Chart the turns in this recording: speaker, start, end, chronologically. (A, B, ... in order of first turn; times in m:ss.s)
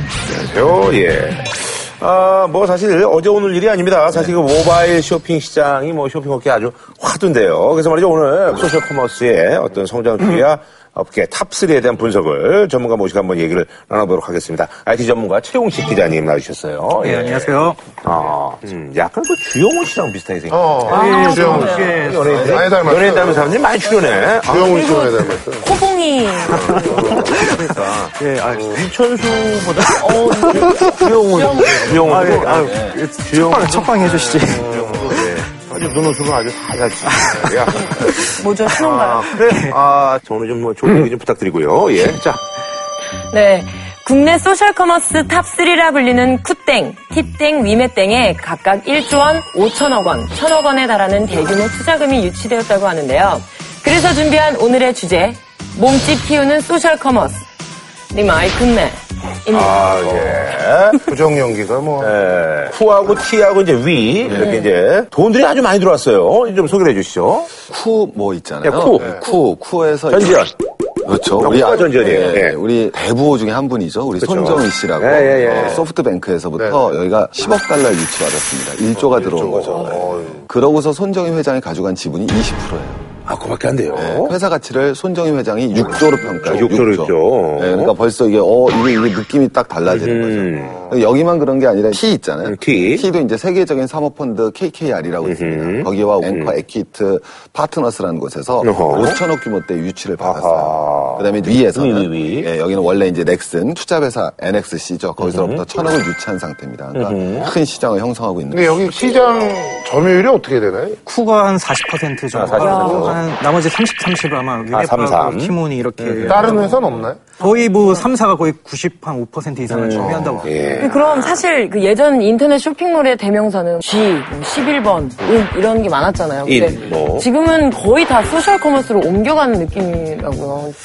0:00.2-0:25.0 A
0:17.0-0:17.9 B
0:20.5-0:23.7 C
0:20.9-0:22.6 B
0:21.0-0:22.0 D
0:23.8-0:27.2 D
0:24.4-0:25.7 C
0:26.4-0:42.4 A
0:26.6-0:28.9 B
0:26.8-0:27.5 C
0:29.9-0:31.1 B
0:30.0-0:31.9 D
0:31.4-0:33.0 E
0:31.9-0:35.3 B
0:37.1-0:38.3 B
0:37.7-0:39.3 D
0:39.3-0:39.7 B
0:43.3-0:57.5 D
0:58.1-1:00.0 D
0:59.5-1:01.1 A
1:01.0-1:02.2 C
1:02.0-1:07.5 A
1:04.3-1:04.6 E
1:04.3-1:04.7 D
1:07.7-1:10.4 E
1:08.6-1:09.2 A
1:10.1-1:10.5 A
1:11.0-1:23.0 E
1:11.3-1:12.6 A
1:14.2-1:15.9 A
1:15.4-1:15.8 C
1:16.6-1:16.9 C
1:18.9-1:20.4 C
1:23.3-1:24.4 A
1:23.9-1:48.9 E
1:26.4-1:27.9 A
1:29.8-1:30.9 A
1:32.4-1:33.1 A
1:35.2-1:36.6 A
1:38.6-1:39.2 A
1:40.2-1:42.5 A
1:45.2-1:45.6 A
1:47.0-1:47.5 A
1:48.5-1:51.0 C
1:51.1-1:56.7 B
1:52.3-1:53.2 A
1:52.6-1:53.1 D
1:54.7-1:57.0 A
1:56.2-1:57.4 C
1:57.4-2:00.9 B
1:57.4-1:58.0 D
1:59.7-2:01.4 A
2:00.7-2:10.8 D
2:06.4-2:07.3 A